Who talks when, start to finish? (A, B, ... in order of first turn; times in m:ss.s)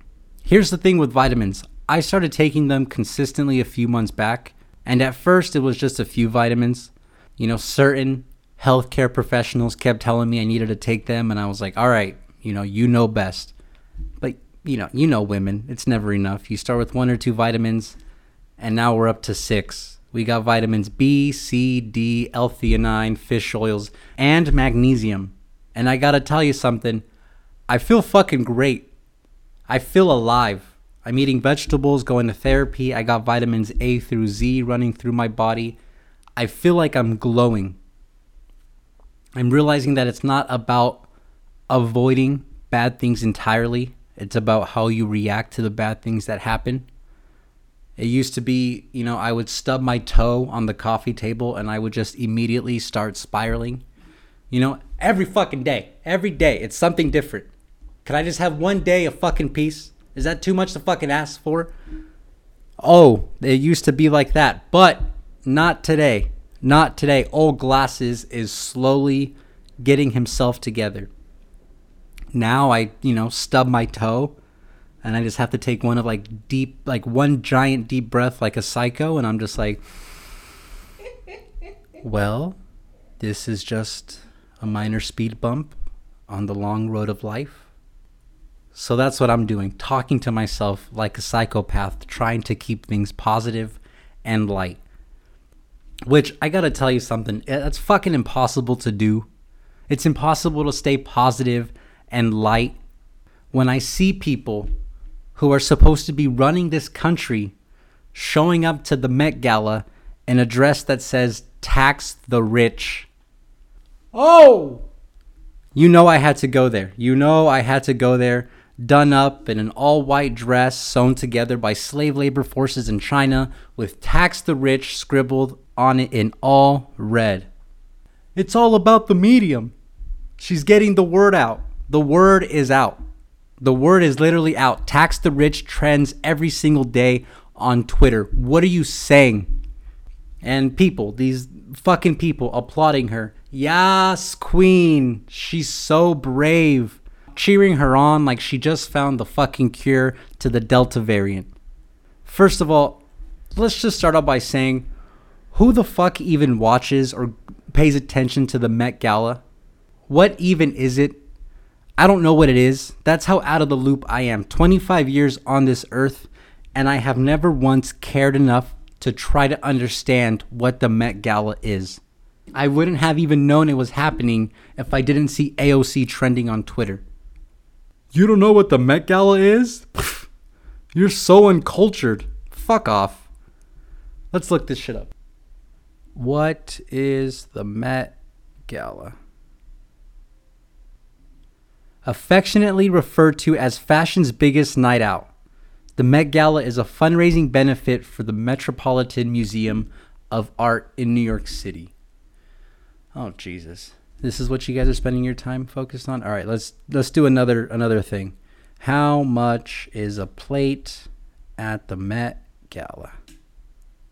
0:00.4-0:13.5 A
0:14.2-0:18.0 A
0:18.6-0:27.0 A
0:27.7-0:28.9 A
0:29.7-0:35.8 A
0:36.4-0:37.8 A
0:39.4-0:41.1 A
0:41.7-0:46.9 A
0:48.0-0:53.8 A
0:54.5-0:57.5 A
0:58.0-1:01.7 A
1:02.8-1:11.1 A
1:12.3-1:14.4 A
1:15.0-1:19.8 A
1:22.0-1:22.6 A
1:23.2-1:25.7 A
1:26.3-1:27.6 A
1:28.7-1:34.8 A
1:36.1-1:39.3 A
1:39.9-1:42.8 A
1:43.5-1:44.7 A
1:45.4-1:47.5 A
1:48.1-1:53.1 A
1:54.1-1:54.8 A
1:55.8-2:07.5 A
2:08.4-2:09.7 A
2:10.4-2:13.0 A
2:13.6-2:19.5 A
2:20.4-2:31.5 A
2:32.2-2:34.9 A
2:35.5-2:39.4 A
2:40.1-2:41.2 A
2:42.0-2:52.0 A
2:52.6-2:57.0 A
2:58.1-3:00.3 A
3:01.0-3:03.3 A
3:04.3-3:05.1 A
3:06.2-3:08.1 A
3:08.7-3:09.2 A
3:12.0-3:15.3 A
3:16.0-3:21.9 A
3:23.1-3:33.1 A